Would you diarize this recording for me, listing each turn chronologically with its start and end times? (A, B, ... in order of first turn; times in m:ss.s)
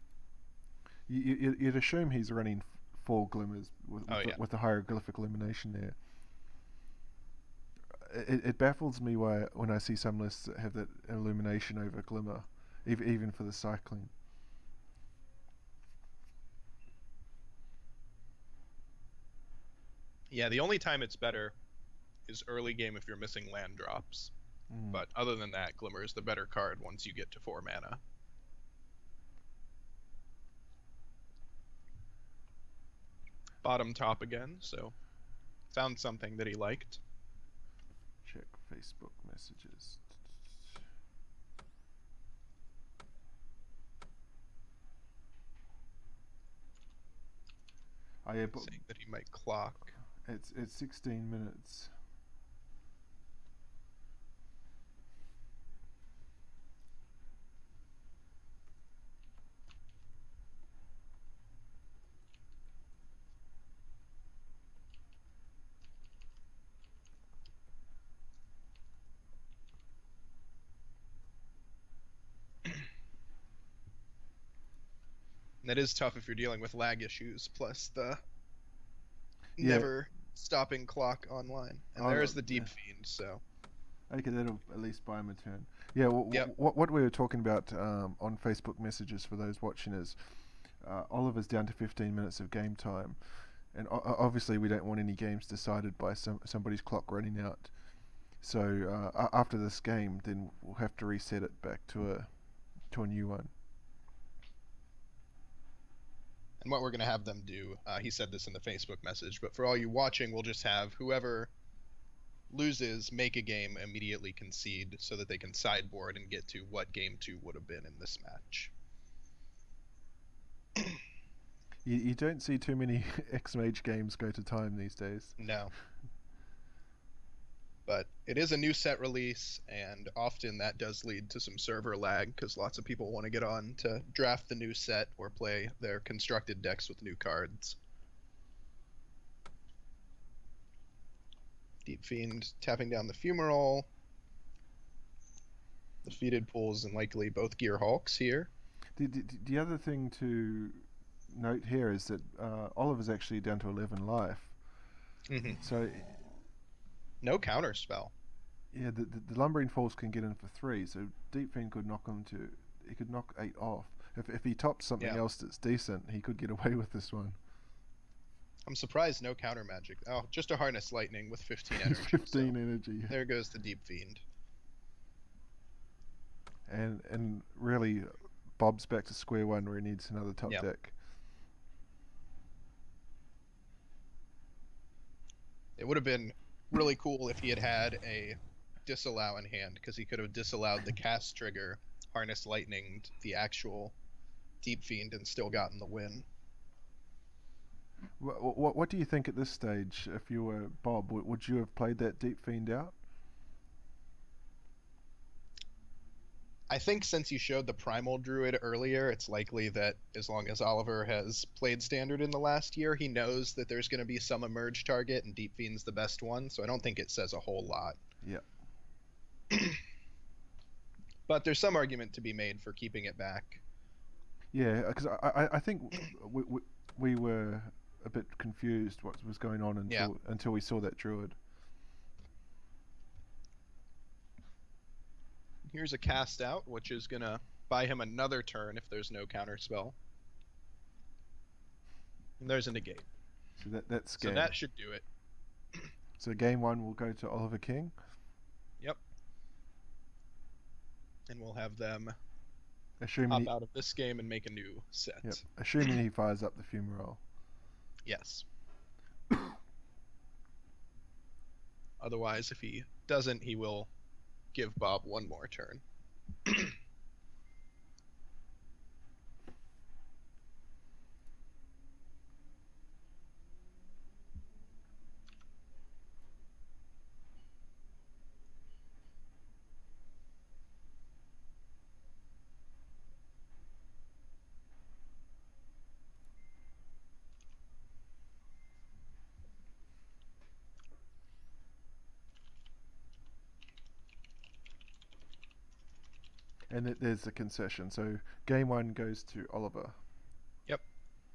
0:01.1-0:06.0 A
0:04.1-0:04.4 B
0:07.9-0:14.1 A
0:20.3-0:21.6 B
0:22.3-0:24.3 B
0:24.7-0:25.0 A
0:24.9-0:28.0 B
0:33.6-0:34.9 B
0:35.7-0:37.0 B
0:38.2-0:40.8 A
0:48.2-0:48.8 A
0:48.6-0:49.9 B
0:50.2-0:51.9 A
1:15.6-1:18.2 B
1:19.6-1:23.4 B
1:19.6-1:19.9 A
1:22.0-1:22.7 A
1:24.1-1:30.2 A
1:30.8-1:33.2 A
1:33.7-1:37.7 A
1:38.4-1:42.3 A
1:42.9-1:43.5 A
1:46.6-1:51.5 B
1:52.5-1:58.7 B
2:01.8-2:05.4 A
2:05.4-2:05.7 B
2:07.9-2:17.8 B
2:21.8-2:23.9 B
2:26.0-2:28.5 B
2:29.0-2:34.6 A
2:35.3-2:35.6 B
2:35.6-2:36.3 A
2:37.2-2:38.1 B
2:38.7-2:47.4 A
2:48.6-2:52.5 B
2:51.7-2:53.2 A
2:53.1-2:54.2 B
2:56.7-3:00.9 A
3:05.8-3:14.0 B
3:14.6-3:16.2 B
3:18.2-3:23.0 A
3:26.7-3:38.0 B
3:39.5-3:39.8 B
3:41.3-3:43.6 B
3:44.5-3:51.4 A
3:55.7-4:00.0 B
4:02.4-4:03.1 B
4:03.6-4:04.5 A
4:04.2-4:05.0 B
4:06.2-4:07.9 A
4:11.3-4:12.2 B
4:13.0-4:13.5 A
4:13.3-4:15.4 B
4:15.2-4:17.2 A
4:18.0-4:18.4 B
4:22.0-4:23.9 B
4:24.5-4:25.8 B
4:26.4-4:26.7 B
4:56.7-5:00.0 A